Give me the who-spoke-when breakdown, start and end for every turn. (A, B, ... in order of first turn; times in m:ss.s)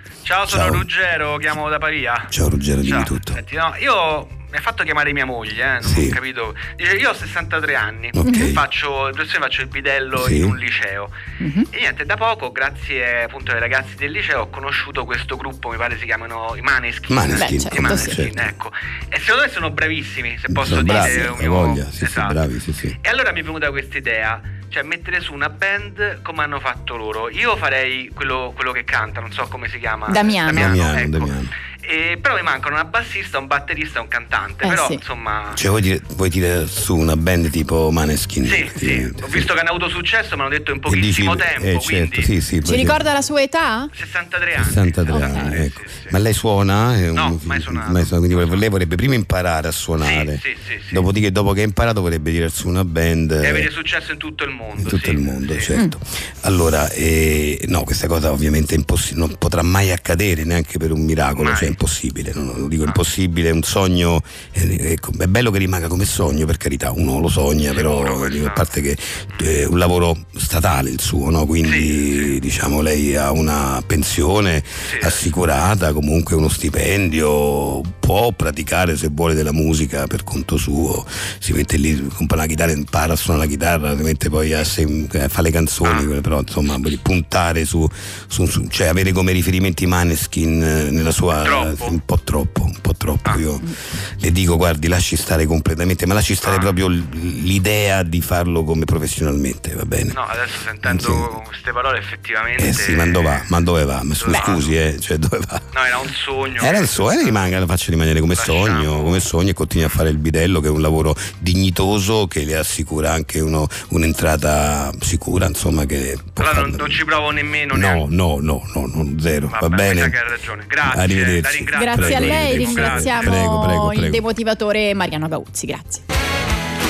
0:00.2-0:11.1 A
0:00.4-0:00.8 B
0:02.3-0:03.4 B
0:05.8-0:06.2 B
0:08.2-0:08.6 B
0:08.2-0:08.5 C
0:10.2-0:10.6 B
0:11.4-0:11.7 C
0:11.7-0:22.4 A
0:17.1-0:18.4 B
0:17.3-0:18.2 C
0:20.5-0:23.0 B
0:20.8-0:21.3 C
0:23.0-0:35.6 A
0:30.1-0:30.7 C
0:30.4-0:31.5 B
0:34.6-0:35.0 C
0:35.6-0:39.5 B
0:38.4-0:42.3 A
0:40.9-0:43.0 B
0:42.6-0:43.9 C
0:43.9-0:46.2 A
0:44.6-0:53.7 B
0:45.1-0:45.5 C
0:47.1-0:48.7 A
0:50.0-0:51.0 A
0:53.4-0:55.7 A
0:54.8-1:33.7 B
1:01.4-1:01.8 A
1:07.7-1:08.7 A
1:11.6-1:12.4 A
1:14.8-1:15.3 A
1:25.8-1:26.1 A
1:31.3-1:32.0 A
1:34.2-1:40.2 B
1:36.4-1:36.7 A
1:40.1-1:43.5 A
1:40.8-1:41.3 B
1:42.6-1:45.7 B
1:44.2-1:44.7 A
1:45.7-1:47.5 A
1:46.6-1:57.0 B
1:48.3-1:49.3 A
1:56.4-1:58.0 A
1:57.7-2:00.1 B
1:59.5-2:03.5 A
2:00.9-2:04.2 B
2:01.7-2:06.0 C